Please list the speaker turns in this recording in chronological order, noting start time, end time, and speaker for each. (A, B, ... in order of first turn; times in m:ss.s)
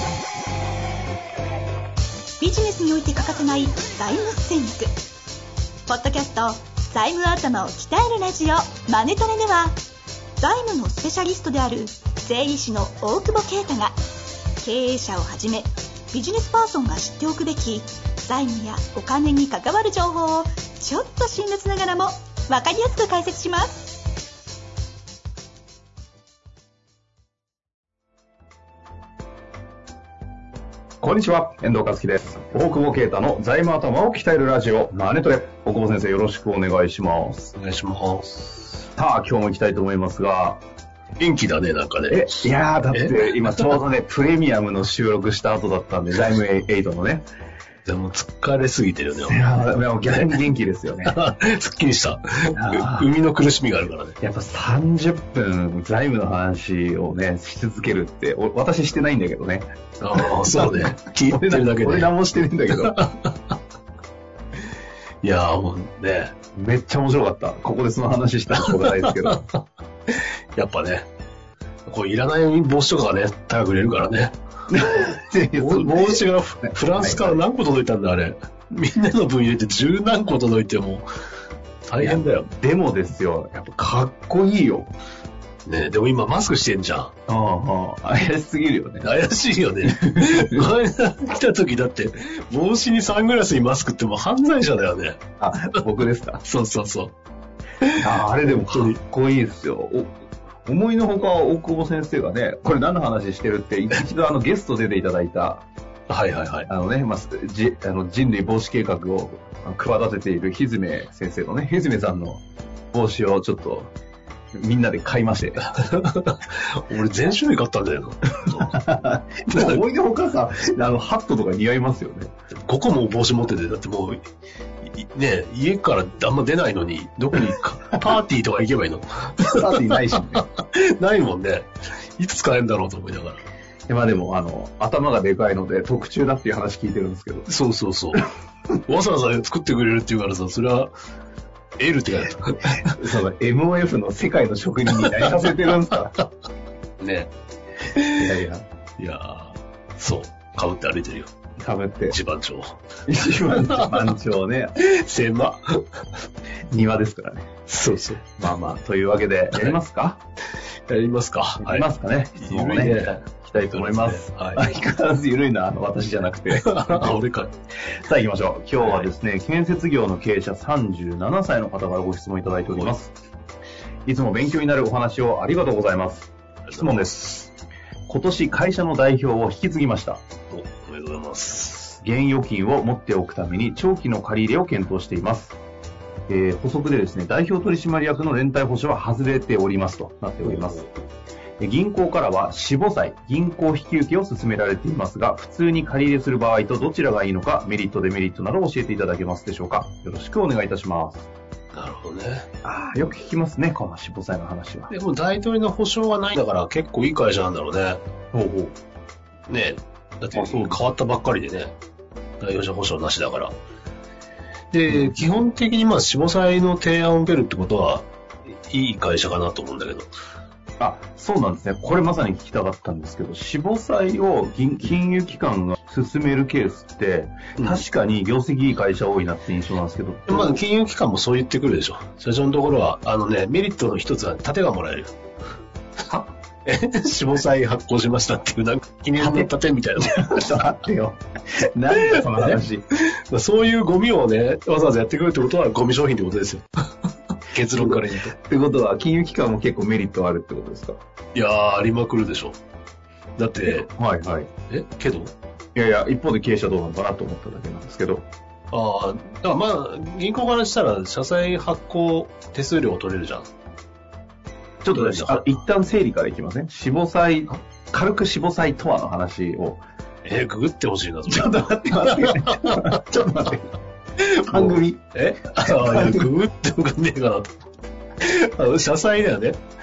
0:02.4-0:04.9 A
0:05.9-0:09.8 A
0:10.4-0:14.0 A
0:14.6-0:24.0 A
0:31.0-0:37.5 B
0:37.6-0:38.7 C
0:39.0-0:40.6 B
0:41.2-0:42.4 C
0:42.1-0:47.3 B
0:42.9-0:43.7 C
0:47.8-0:49.5 C
0:49.1-0:51.2 B
0:50.1-0:50.4 C
0:51.0-0:54.2 C
0:52.5-0:53.1 B
0:54.2-1:03.0 B
1:00.0-1:02.1 C
1:02.7-1:03.6 C
1:05.2-1:06.4 C
1:06.6-1:09.4 B
1:08.6-1:09.5 C
1:10.1-1:11.1 C
1:11.9-1:14.4 C
1:14.7-1:17.4 B
1:15.6-1:21.0 C
1:21.9-1:22.5 C
1:22.0-1:24.9 B
1:25.7-1:27.1 C
1:27.3-1:29.1 B
1:29.0-1:35.2 C
1:29.8-1:30.7 B
1:35.4-1:36.4 B
1:36.4-1:37.1 C
1:37.8-1:39.0 C
1:38.0-1:40.1 B
1:40.7-1:45.6 B
1:46.1-1:46.7 C
1:46.7-1:53.9 B
1:54.5-1:55.6 B
1:55.6-1:58.7 C
1:58.5-2:02.3 B
1:59.5-1:59.8 C
2:02.6-2:04.2 C
2:04.8-2:13.4 C
2:07.4-2:08.2 B
2:09.4-2:10.4 B
2:13.9-2:17.5 B
2:17.5-2:18.2 C
2:18.9-2:20.9 C
2:21.8-2:23.0 C
2:22.8-2:26.1 B
2:24.9-2:26.3 C
2:27.0-2:27.3 C
2:27.9-2:28.4 C
2:28.2-2:28.7 B
2:29.0-2:31.3 C
2:31.6-2:32.2 B
2:32.1-2:32.8 C
2:33.1-2:34.7 B
2:33.4-2:34.1 C
2:34.8-2:36.0 C
2:36.7-2:37.5 B
2:37.7-2:38.5 C
2:38.4-2:40.2 B
2:40.9-2:44.6 C
2:41.6-2:47.2 B
2:46.5-2:47.5 C
2:48.0-2:53.2 B
2:48.8-2:49.1 C
2:54.0-2:57.5 B
2:56.7-2:57.1 C
2:58.1-3:00.2 B
3:00.5-3:02.0 C
3:02.0-3:05.6 B
3:06.3-3:10.8 B
3:10.4-3:10.9 C
3:11.6-3:21.3 B
3:21.7-3:22.5 C
3:22.6-3:24.9 B
3:24.9-3:28.0 C
3:28.3-3:28.8 B
3:29.5-3:31.8 C
3:30.3-3:30.8 B
3:32.4-3:33.6 C
3:34.7-3:40.1 C
3:34.9-3:35.2 B
3:40.8-3:50.6 B
3:47.6-3:47.8 C
3:50.3-3:55.2 C
3:56.7-4:00.5 C
3:59.2-4:02.8 B
4:02.0-4:02.6 C
4:03.1-4:06.6 C
4:07.5-4:08.4 C
4:07.7-4:11.0 B
4:11.4-4:12.6 C
4:13.4-4:13.9 C
4:13.6-4:14.5 B
4:14.7-4:15.3 C
4:15.8-4:18.3 B
4:18.7-4:23.5 C
4:24.8-4:29.8 B
4:24.9-4:25.6 C
4:30.2-4:33.0 C
4:31.3-4:33.7 B
4:34.4-4:36.3 B
4:34.5-4:37.6 C
4:38.2-4:39.6 C